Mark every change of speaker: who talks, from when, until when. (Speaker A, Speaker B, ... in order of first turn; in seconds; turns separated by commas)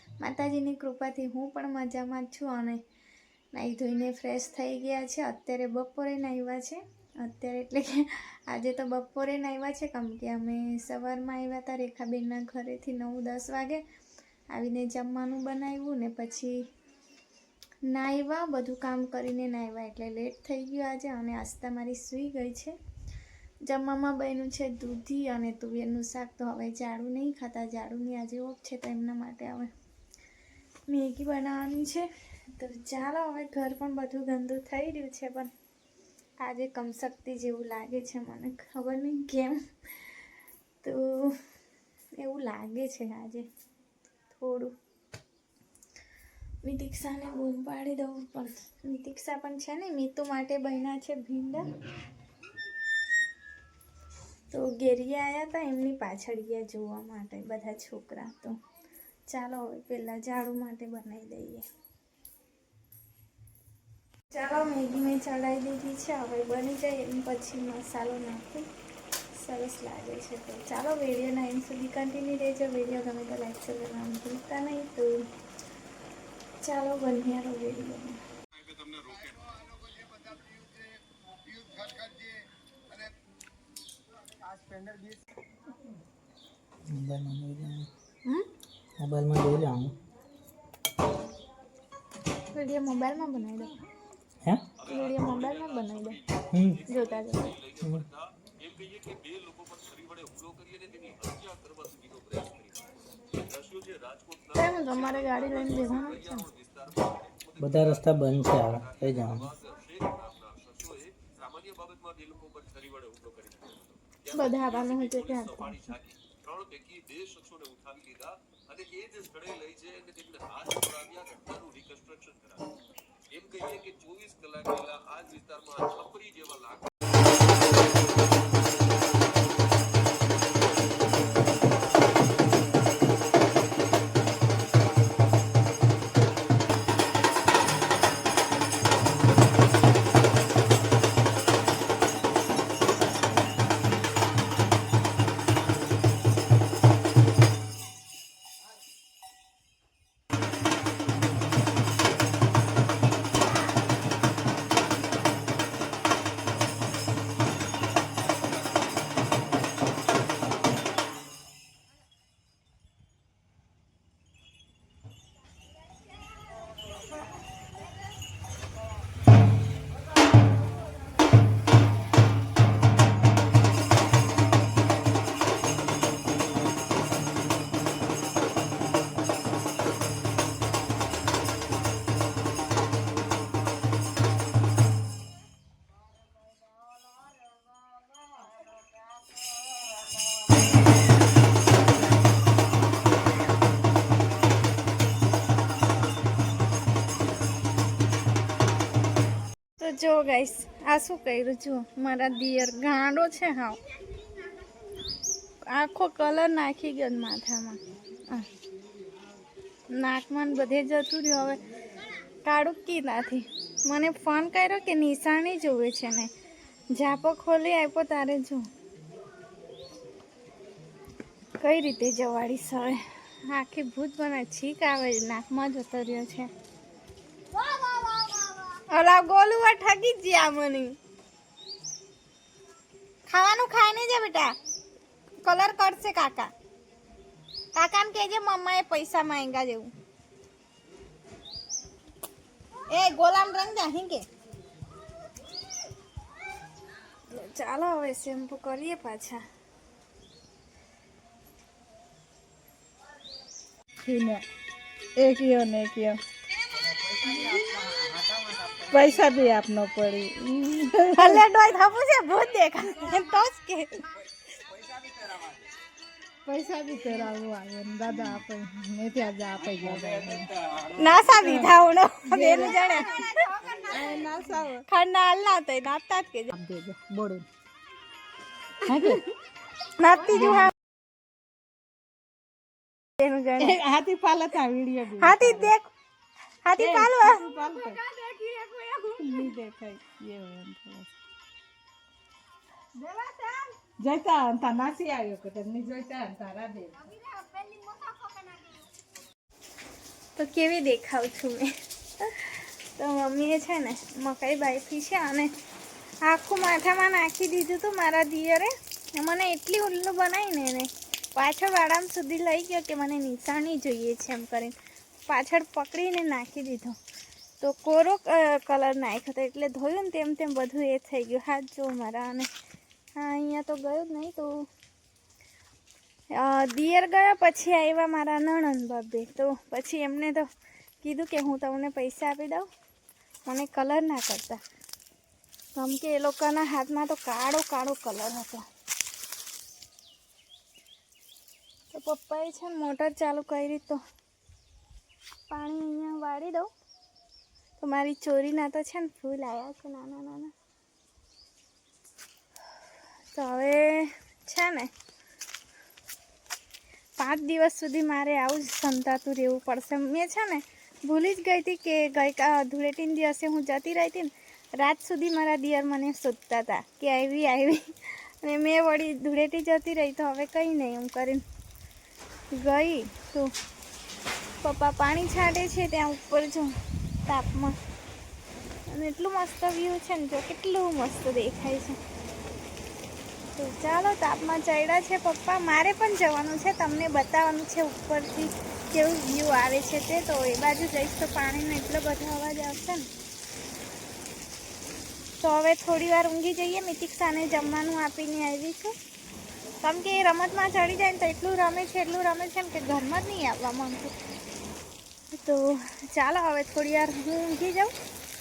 Speaker A: 0.2-2.8, Speaker A: 3.5-13.8, Speaker A: 14.5-16.6, Speaker A: 17.9-22.8, Speaker A: 23.6-29.7, Speaker A: 30.9-35.5, Speaker A: 36.4-40.2, Speaker A: 40.8-41.4, Speaker A: 42.2-43.5, Speaker A: 44.3-44.7, Speaker A: 46.6-51.7, Speaker A: 54.5-58.5, Speaker A: 59.3-61.7, Speaker A: 64.3-68.7, Speaker A: 69.3-75.1, Speaker A: 76.6-78.2, Speaker B: 86.9-87.9, Speaker B: 89.0-90.0, Speaker A: 92.5-93.7, Speaker A: 94.8-96.2, Speaker B: 96.5-96.8, Speaker A: 96.9-97.6, Speaker B: 97.8-98.1, Speaker A: 104.5-106.5, Speaker B: 107.6-109.6, Speaker A: 114.3-116.0, Speaker A: 199.8-203.8, Speaker A: 205.7-208.5, Speaker A: 209.9-211.6, Speaker A: 212.4-216.3, Speaker A: 216.9-218.7, Speaker A: 221.6-226.5, Speaker A: 228.9-231.0, Speaker A: 233.3-234.6, Speaker A: 235.4-236.5, Speaker A: 237.8-239.9, Speaker A: 242.9-244.3, Speaker A: 247.3-249.4, Speaker C: 254.0-254.4, Speaker C: 255.2-256.2, Speaker C: 257.3-261.4, Speaker A: 261.1-264.1, Speaker C: 266.4-270.5, Speaker A: 270.9-273.4, Speaker C: 271.4-271.7, Speaker C: 272.2-274.8, Speaker A: 274.9-276.5, Speaker C: 276.5-277.5, Speaker C: 278.9-279.2, Speaker A: 279.9-280.7, Speaker C: 280.3-280.7, Speaker A: 283.2-283.8, Speaker C: 283.6-285.7, Speaker A: 285.2-285.9, Speaker A: 286.6-289.5, Speaker C: 286.8-288.4, Speaker C: 289.2-291.1, Speaker C: 293.0-296.9, Speaker A: 297.5-298.3, Speaker A: 300.4-305.5, Speaker A: 306.2-314.8, Speaker A: 315.3-317.0, Speaker A: 317.6-322.5, Speaker A: 323.2-324.7, Speaker A: 326.3-330.5, Speaker A: 331.0-332.7, Speaker A: 333.5-334.6, Speaker A: 335.8-338.6, Speaker A: 341.9-344.0, Speaker A: 345.5-346.7, Speaker A: 347.8-350.5, Speaker A: 353.3-354.9, Speaker A: 357.2-371.4, Speaker A: 372.6-373.5, Speaker A: 374.6-377.8, Speaker A: 378.9-382.0, Speaker A: 383.6-393.1, Speaker A: 395.4-398.9, Speaker A: 399.8-404.1, Speaker A: 405.3-407.9